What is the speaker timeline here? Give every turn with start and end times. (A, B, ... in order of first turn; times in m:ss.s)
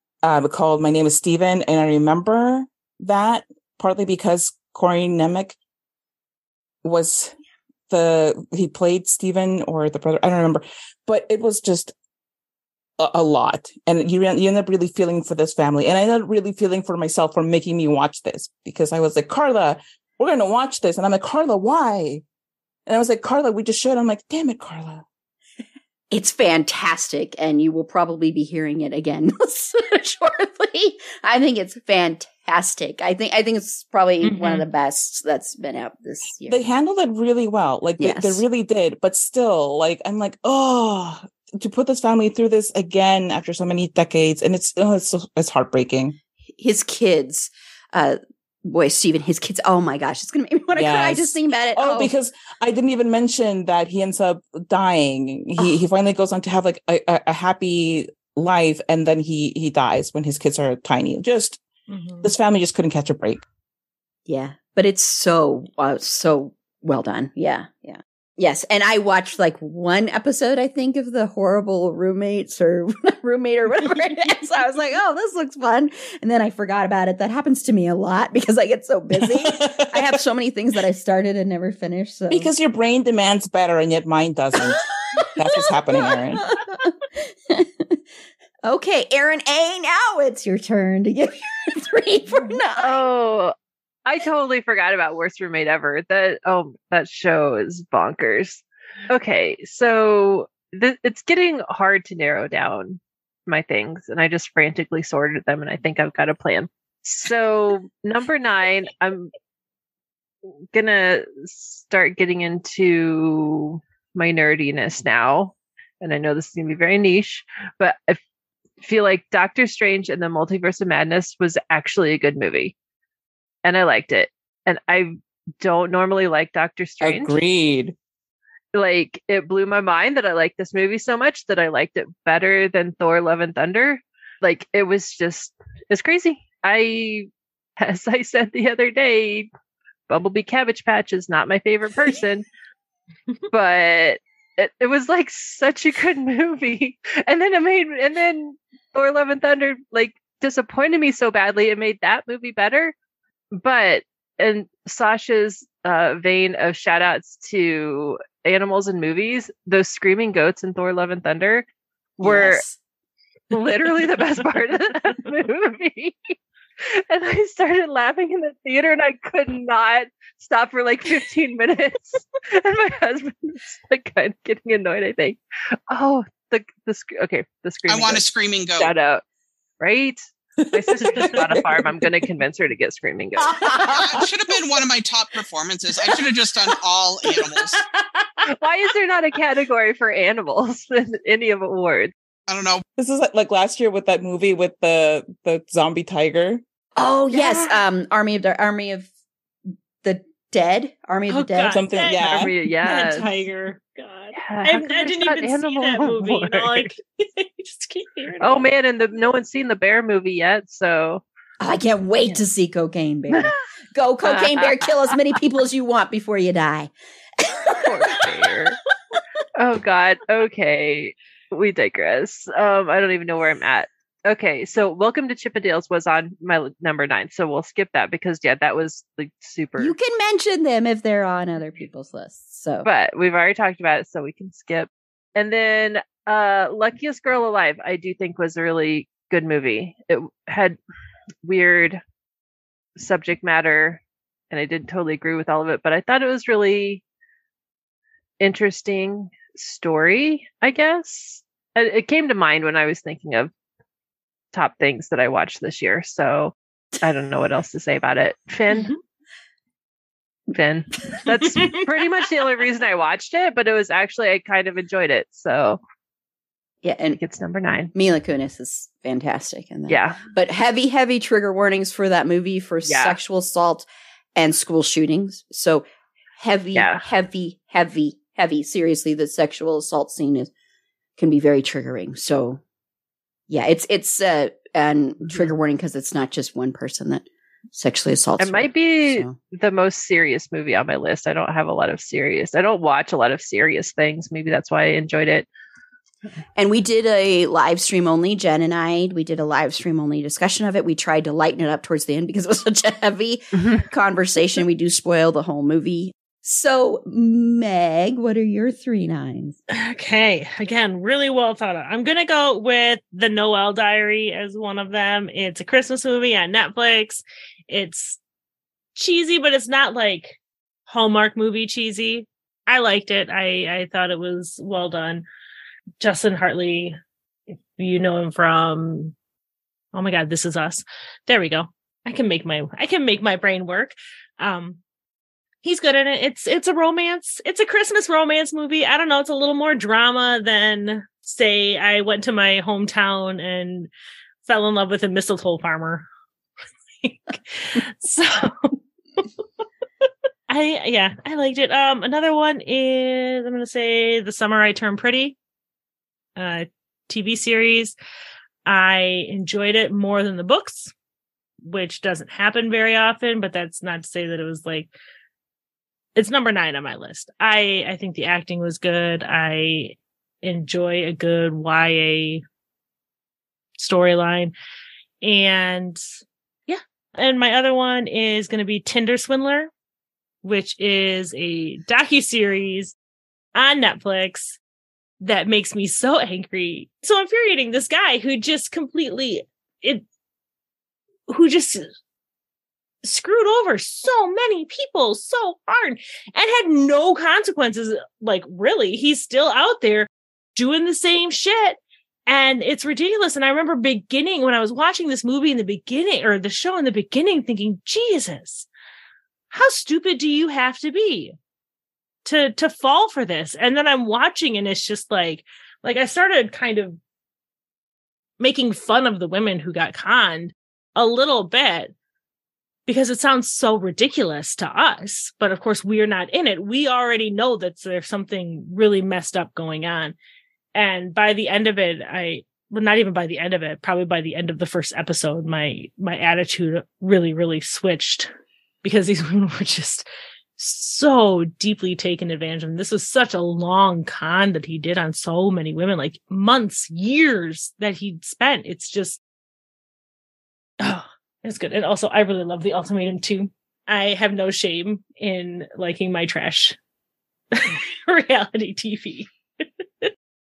0:00.2-0:05.6 A
0:06.8-0:07.3 A
0:07.9-0:11.9 A
0:13.0-0:22.2 A
0:22.9-0:25.0 A
0:26.1-0:36.6 B
0:34.2-0:34.6 C
0:36.5-0:46.2 A
0:38.0-0:38.4 B
0:46.6-0:52.1 B
0:50.7-1:01.6 A
1:01.9-1:02.3 C
1:02.2-1:03.4 A
1:04.3-1:22.5 B
1:19.2-1:20.2 A
1:22.3-1:24.8 A
1:24.7-1:28.0 B
1:25.4-1:26.4 A
1:28.6-1:33.0 B
1:32.8-1:33.5 D
1:34.0-1:49.3 D
1:50.7-1:58.2 D
1:58.8-2:02.7 D
2:03.6-2:07.4 D
2:07.0-2:08.0 A
2:08.7-2:19.5 D
2:20.1-2:22.4 D
2:23.5-2:32.9 D
2:33.5-2:41.7 D
2:42.2-2:42.6 D
2:42.2-2:42.8 B
2:43.5-2:46.3 D
2:46.9-2:58.2 D
2:57.9-2:58.9 E
2:58.8-2:59.2 D
2:59.8-3:00.2 D
3:00.6-3:02.1 A
3:00.7-3:03.7 D
3:03.5-3:04.3 B
3:03.9-3:07.8 E
3:08.5-3:12.1 D
3:12.5-3:12.8 E
3:13.0-3:16.6 A
3:17.0-3:19.1 B
3:17.3-3:17.8 C
3:20.0-3:21.8 B
3:21.3-3:28.6 C
3:21.7-3:22.5 A
3:22.2-3:23.3 D
3:24.4-3:26.9 D
3:28.4-3:31.2 D
3:31.6-3:38.5 B
3:34.2-3:35.1 D
3:37.8-3:38.8 D
3:39.6-3:49.9 D
3:49.8-3:52.9 B
3:52.8-4:00.8 D
4:01.4-4:02.0 D
4:03.0-4:07.0 D
4:08.4-4:13.5 D
4:14.5-4:18.9 D
4:20.5-4:25.8 D
4:21.5-4:21.8 C
4:26.8-4:27.2 B
4:27.2-4:27.9 D
4:27.9-4:35.8 B
4:29.9-4:30.2 D
4:32.8-4:33.2 D
4:36.4-4:40.5 B
4:36.7-4:37.0 D
4:41.2-4:42.6 B
4:43.5-4:49.3 B
4:48.4-4:55.5 D
4:56.6-5:09.6 B
5:09.7-5:18.2 C
5:19.0-5:20.4 C
5:20.9-5:25.2 C
5:26.0-5:27.0 C
5:27.5-5:29.1 C
5:29.9-5:34.8 C
5:35.6-5:43.9 C
5:44.4-5:46.0 C
5:47.0-5:48.7 C
5:50.5-5:55.4 C
5:56.4-5:58.0 C
5:58.6-6:00.9 C
6:01.6-6:04.9 C
6:06.2-6:12.4 C
6:13.8-6:14.5 C
6:15.2-6:16.0 C
6:16.7-6:19.7 C
6:20.4-6:22.9 C
6:23.5-6:24.6 C
6:25.2-6:30.0 C
6:31.3-6:31.9 C
6:33.0-6:48.7 C
6:49.5-6:51.3 C
6:52.2-6:57.0 C
6:58.4-7:01.9 C
7:02.9-7:10.1 C
7:10.7-7:18.3 C
7:18.8-7:20.0 C
7:20.6-7:29.2 C
7:30.8-7:36.8 C
7:37.5-7:39.3 C